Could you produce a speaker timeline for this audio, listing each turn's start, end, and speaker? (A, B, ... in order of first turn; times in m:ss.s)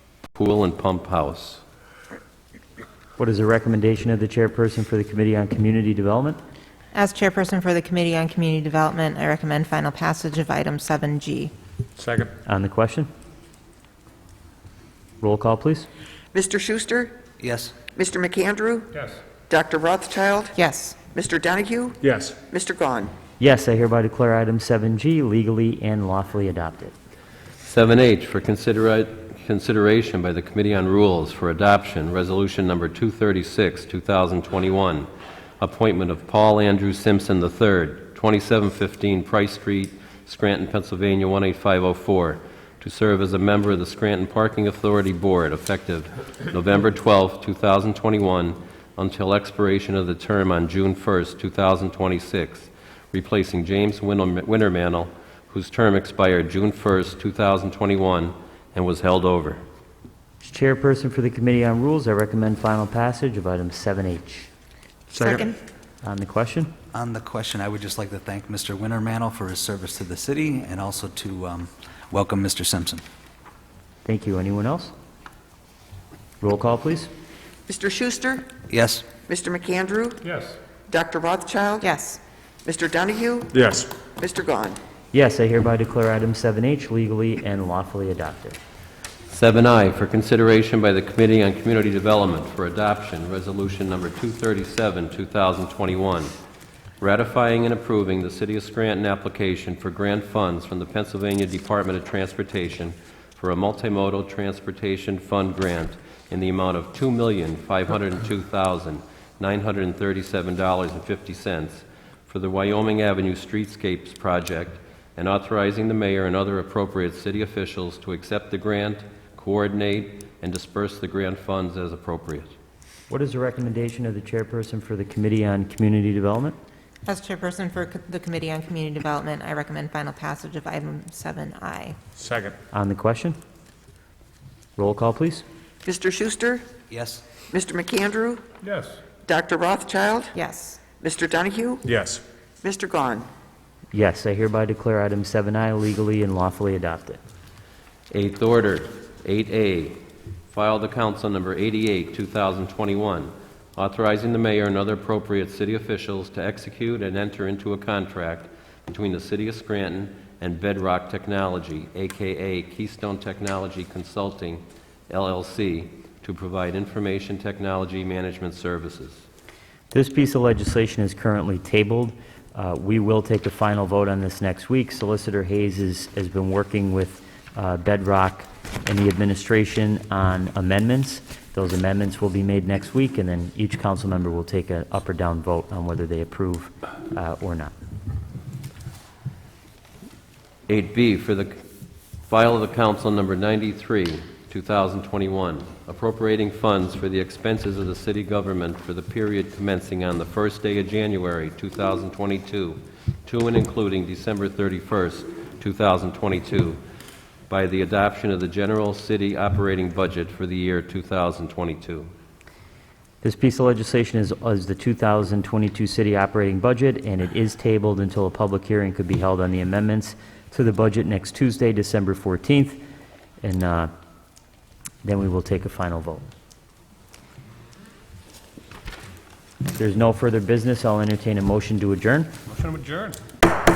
0:00.3-0:01.6 A
0:03.2-0:06.4 B
0:06.9-0:11.5 C
0:12.0-0:12.3 D
0:12.4-0:13.1 B
0:15.2-0:15.9 B
0:16.3-0:17.2 E
0:17.4-0:17.8 F
0:17.9-0:18.9 E
0:18.9-0:19.2 D
0:19.5-0:20.6 E
0:20.6-0:21.0 C
0:21.1-0:23.1 E
0:22.0-0:22.4 D
0:23.4-0:26.9 B
0:27.6-0:35.1 A
0:35.6-0:59.6 A
1:00.4-1:04.5 B
1:05.2-1:05.6 C
1:05.2-1:05.4 B
1:06.0-1:06.7 B
1:06.9-1:13.0 F
1:14.0-1:14.9 B
1:16.4-1:17.1 B
1:17.7-1:18.5 E
1:18.7-1:19.1 F
1:19.2-1:20.2 E
1:20.2-1:20.6 D
1:20.9-1:21.9 E
1:21.8-1:22.2 C
1:22.6-1:23.5 E
1:23.5-1:24.0 D
1:24.0-1:24.8 E
1:25.1-1:28.6 B
1:29.3-1:36.3 A
1:37.0-2:02.5 A
2:03.1-2:06.6 B
2:07.0-2:12.0 C
2:12.2-2:12.6 D
2:12.7-2:13.4 B
2:14.8-2:15.4 B
2:15.8-2:16.7 E
2:16.9-2:17.2 F
2:17.4-2:18.4 E
2:18.6-2:19.0 D
2:19.2-2:20.3 E
2:20.3-2:20.8 C
2:21.0-2:21.8 E
2:21.8-2:22.2 D
2:22.6-2:23.3 E
2:23.9-2:27.2 B
2:28.1-2:30.0 A
2:30.5-2:49.2 A
2:49.9-3:07.7 B
3:10.7-3:11.6 A
3:12.3-3:26.8 A
3:27.5-3:32.1 A
3:33.2-3:42.8 B
3:43.4-3:43.9 B
3:45.0-3:46.2 B
3:49.7-3:52.3 B
3:52.5-3:53.2 D